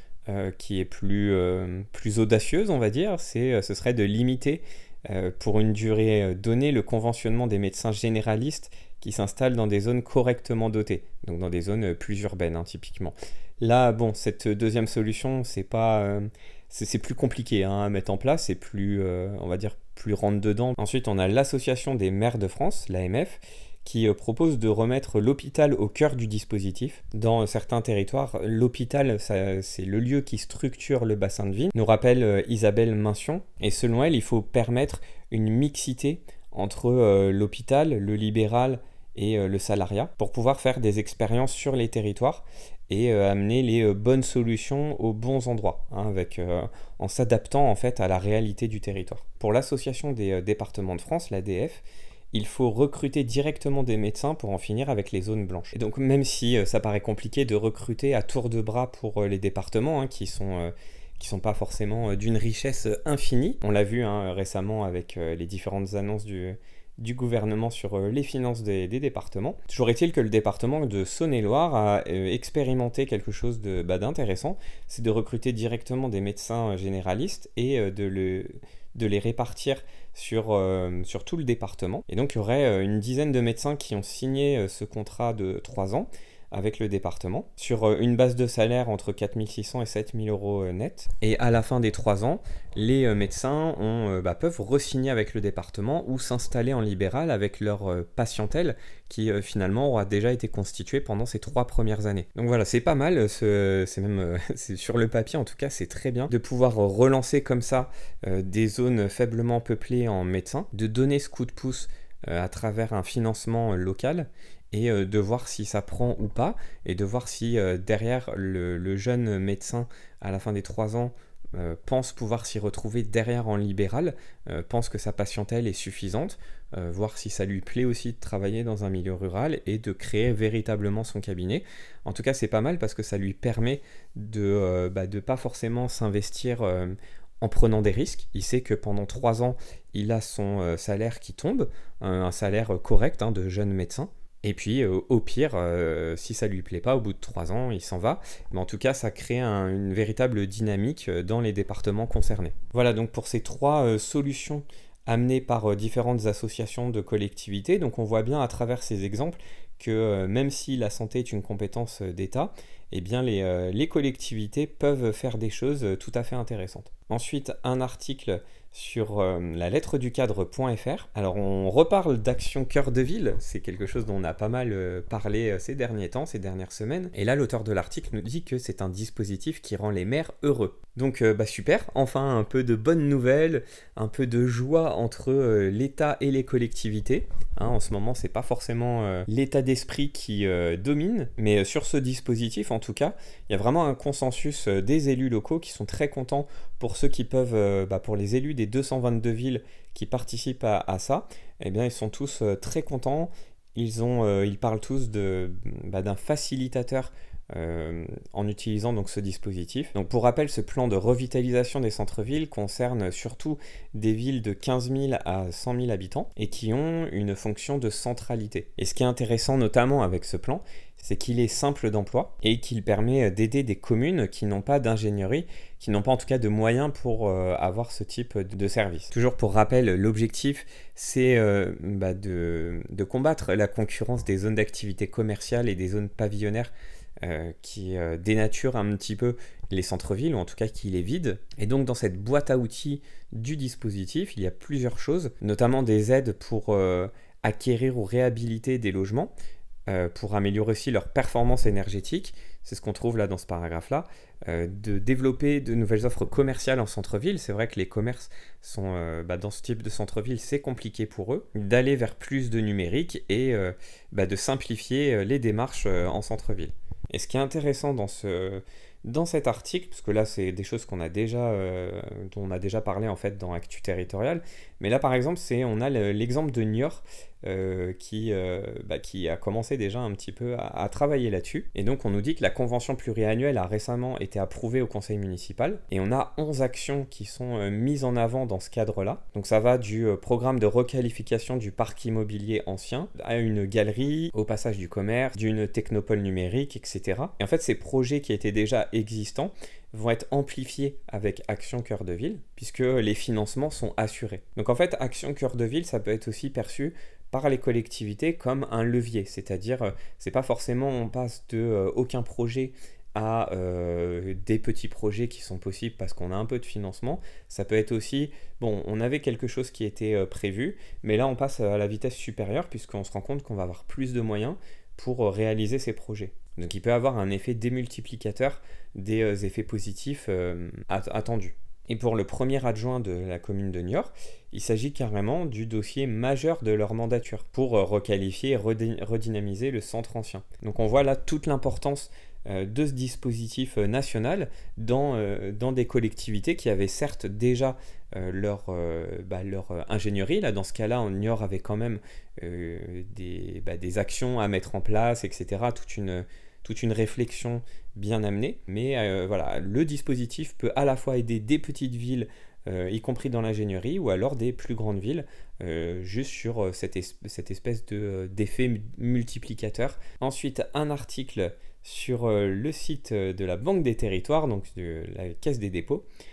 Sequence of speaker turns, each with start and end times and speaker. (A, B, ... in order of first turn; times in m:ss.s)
0:00.3-3:56.7 A
3:57.2-4:09.3 A
4:09.9-6:16.1 A